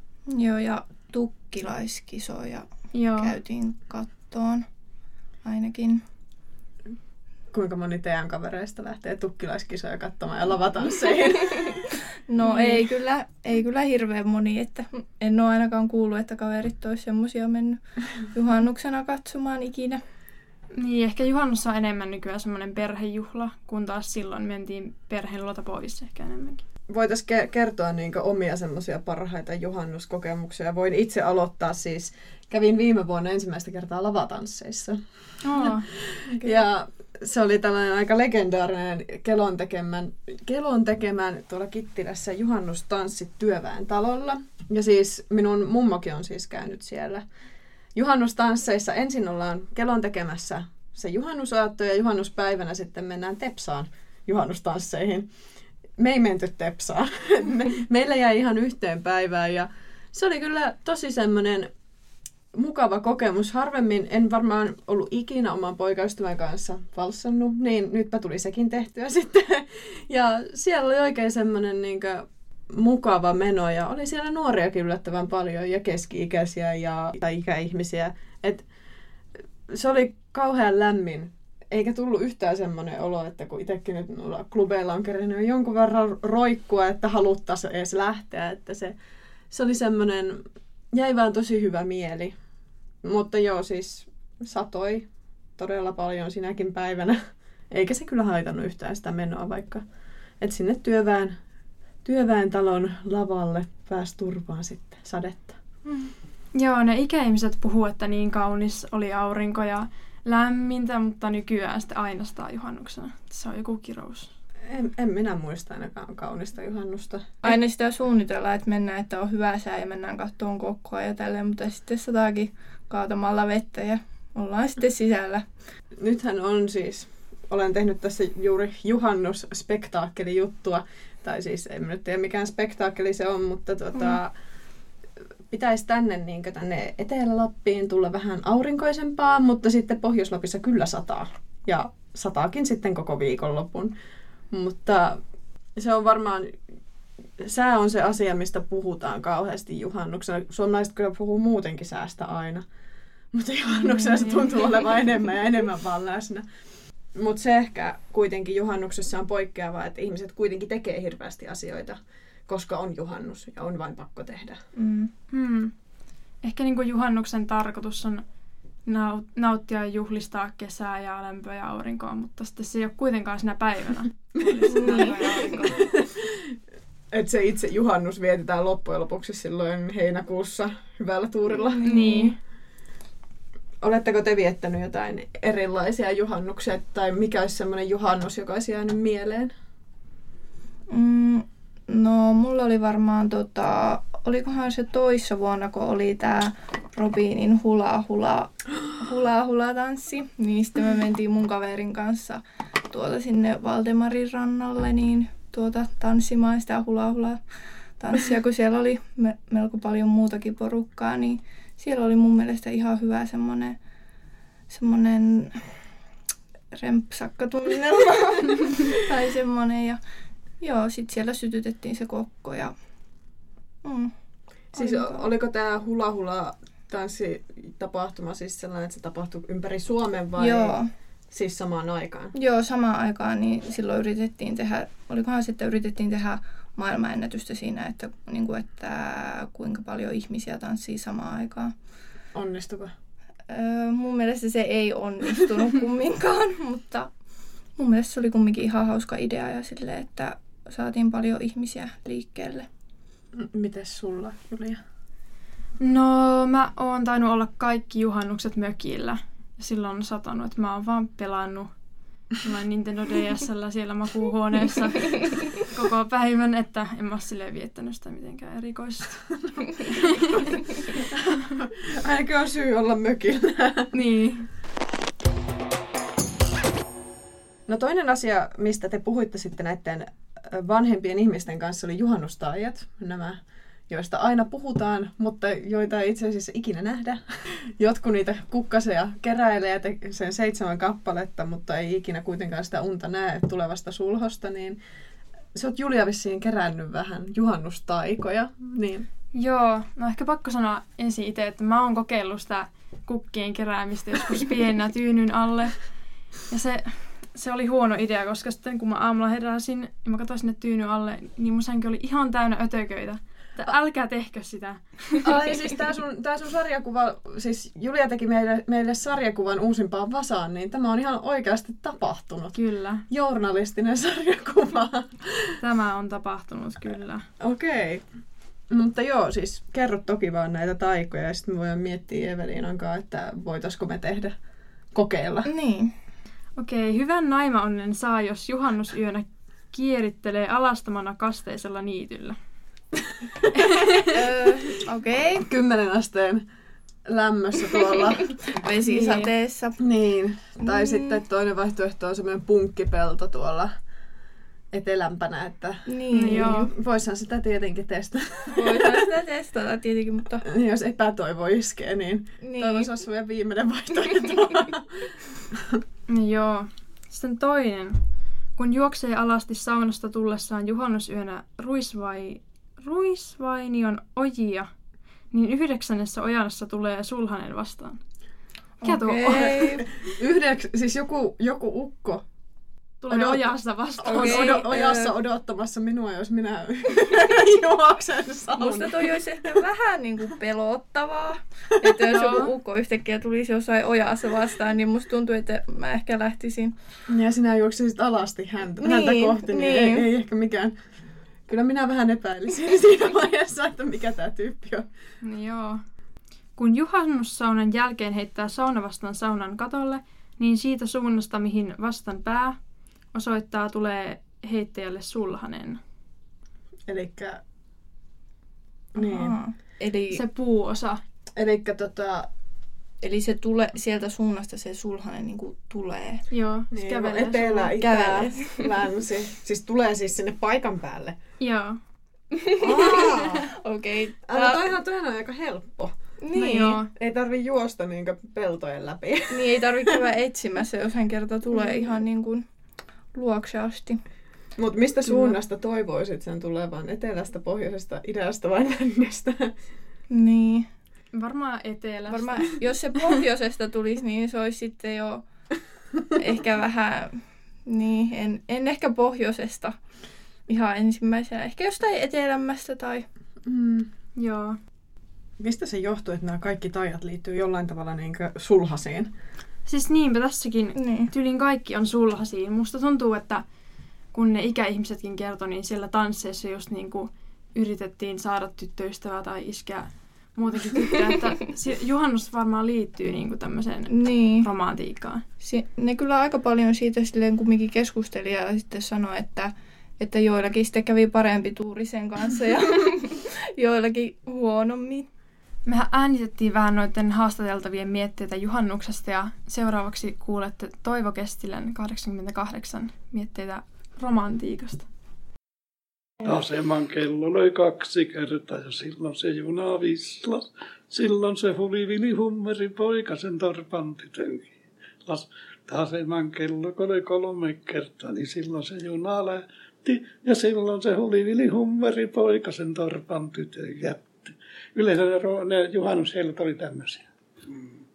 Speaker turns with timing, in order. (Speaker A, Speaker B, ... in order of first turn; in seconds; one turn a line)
Speaker A: 0.3-4.6
Speaker B: 2.9-3.3
Speaker A: 5.4-6.0
Speaker C: 7.5-11.7
Speaker A: 12.3-20.0
Speaker B: 12.4-12.8
Speaker B: 20.8-26.6
Speaker C: 26.9-35.0
Speaker B: 35.4-35.9
Speaker C: 35.6-47.2
Speaker C: 47.9-55.3
Speaker C: 56.0-61.7
Speaker C: 62.5-78.7
Speaker C: 79.7-89.0
Speaker C: 89.5-92.3
Speaker C: 93.0-97.2
Speaker C: 97.7-99.8
Speaker C: 100.4-101.3
Speaker C: 102.0-105.5
Speaker B: 105.8-114.3
Speaker C: 114.6-117.6
Speaker A: 117.4-125.4
Speaker C: 126.0-134.3
Speaker C: 135.5-143.9
Speaker C: 144.5-145.2
Speaker C: 145.8-146.5
Speaker C: 147.4-152.6
Speaker C: 153.3-156.4
Speaker C: 157.2-164.6
Speaker A: 164.7-165.1
Speaker B: 165.3-165.7
Speaker B: 166.4-168.2
Speaker B: 168.8-175.9
Speaker C: 174.5-175.0
Speaker A: 174.7-175.5
Speaker C: 175.7-176.5
Speaker C: 177.1-181.8
Speaker A: 181.5-182.3
Speaker B: 181.8-182.3
Speaker C: 183.8-189.5
Speaker A: 190.9-207.4
Speaker A: 208.0-213.8
Speaker A: 214.7-215.7
Speaker A: 216.7-220.0
Speaker A: 220.6-222.7
Speaker A: 223.8-224.1
Speaker A: 224.7-225.2
Speaker C: 224.7-230.8
Speaker A: 230.4-230.9
Speaker C: 231.3-232.3
Speaker A: 232.3-241.7
Speaker C: 242.3-242.9
Speaker A: 243.5-247.1
Speaker A: 247.8-252.7
Speaker C: 253.3-254.8
Speaker B: 255.8-261.7
Speaker B: 262.3-270.8
Speaker C: 271.8-273.9
Speaker B: 273.9-274.5
Speaker C: 277.7-294.8
Speaker C: 295.5-299.1
Speaker B: 299.3-305.8
Speaker B: 306.5-315.4
Speaker C: 315.2-322.6
Speaker B: 322.5-323.0
Speaker C: 323.1-325.5
Speaker B: 325.6-327.2
Speaker C: 327.4-328.0
Speaker C: 328.7-334.3
Speaker C: 334.9-335.5
Speaker A: 335.4-335.9
Speaker B: 336.6-342.4
Speaker B: 343.6-344.0
Speaker A: 344.1-345.4
Speaker C: 345.4-346.4
Speaker C: 347.1-348.3
Speaker A: 348.5-349.8
Speaker B: 348.8-349.3
Speaker C: 349.8-353.7
Speaker A: 350.6-351.2
Speaker C: 354.7-358.9
Speaker A: 355.9-356.7
Speaker B: 356.1-356.7
Speaker A: 358.5-360.4
Speaker C: 360.4-365.0
Speaker A: 362.4-362.9
Speaker B: 366.1-368.0
Speaker B: 368.6-374.7
Speaker B: 375.3-378.0
Speaker A: 378.8-379.9
Speaker B: 378.8-379.8
Speaker C: 379.3-382.2
Speaker B: 383.0-384.6
Speaker C: 383.1-389.2
Speaker A: 384.1-385.1
Speaker A: 388.6-396.7
Speaker B: 392.1-392.5
Speaker C: 397.1-400.7
Speaker A: 398.8-400.0
Speaker C: 401.5-404.9
Speaker B: 405.2-405.8
Speaker B: 406.6-412.6
Speaker B: 413.1-415.8
Speaker C: 416.9-417.4
Speaker C: 418.9-419.3
Speaker A: 419.0-420.2
Speaker B: 420.1-421.0
Speaker C: 421.3-422.3
Speaker A: 423.0-426.2
Speaker B: 426.3-427.8
Speaker C: 426.7-431.1
Speaker A: 427.8-428.7
Speaker B: 431.4-431.8
Speaker A: 432.4-434.6
Speaker C: 432.6-433.5
Speaker C: 434.2-435.9
Speaker A: 436.2-436.8
Speaker B: 436.3-436.9
Speaker C: 436.9-439.7
Speaker A: 439.3-442.4
Speaker A: 443.1-444.0
Speaker C: 444.6-449.5
Speaker A: 445.0-445.4
Speaker A: 450.1-450.7
Speaker B: 451.1-453.1
Speaker A: 452.1-455.2
Speaker A: 456.1-459.8
Speaker A: 460.5-463.1
Speaker C: 463.4-463.9
Speaker B: 464.2-464.6
Speaker C: 465.4-469.1
Speaker B: 469.6-473.4
Speaker A: 470.8-471.1
Speaker B: 474.1-485.2
Speaker A: 483.9-484.4
Speaker A: 485.4-495.1
Speaker B: 495.6-504.8
Speaker D: 506.2-514.5
Speaker D: 515.0-527.6